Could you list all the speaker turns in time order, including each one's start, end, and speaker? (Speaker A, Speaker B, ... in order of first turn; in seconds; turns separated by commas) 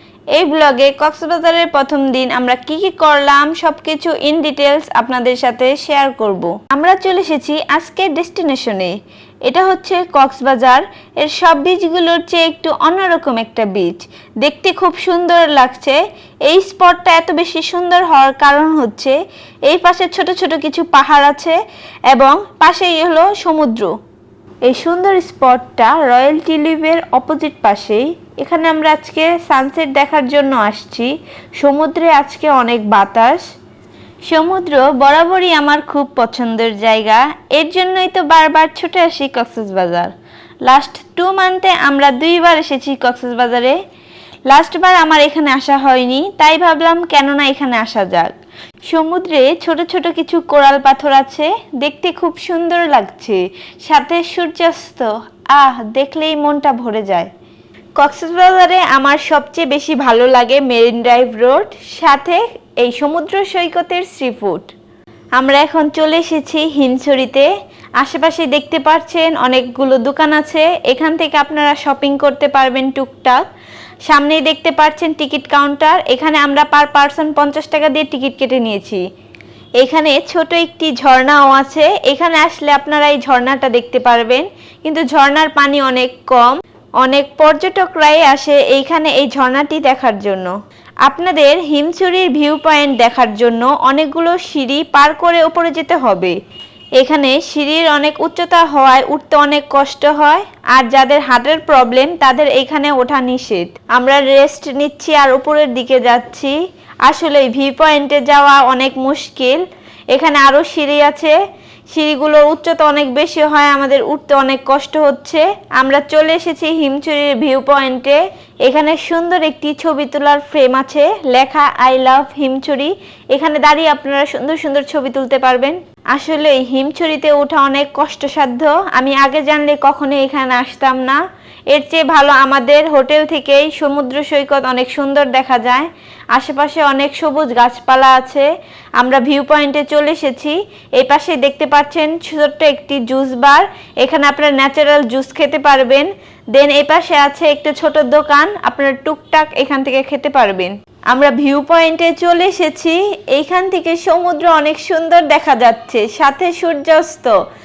Speaker A: 0.3-8.9, Speaker A: 9.4-19.1, Speaker A: 19.6-21.6, Speaker A: 22.1-23.9, Speaker A: 24.6-33.4, Speaker A: 34.3-40.1, Speaker A: 40.6-43.8, Speaker A: 44.5-48.3, Speaker A: 48.9-57.3, Speaker A: 58.0-64.7, Speaker A: 65.4-67.5, Speaker A: 68.0-73.4, Speaker A: 74.1-79.0, Speaker A: 79.8-90.5, Speaker A: 91.0-96.3, Speaker A: 97.0-106.5, Speaker A: 107.0-109.6, Speaker A: 110.1-111.4, Speaker A: 111.9-157.3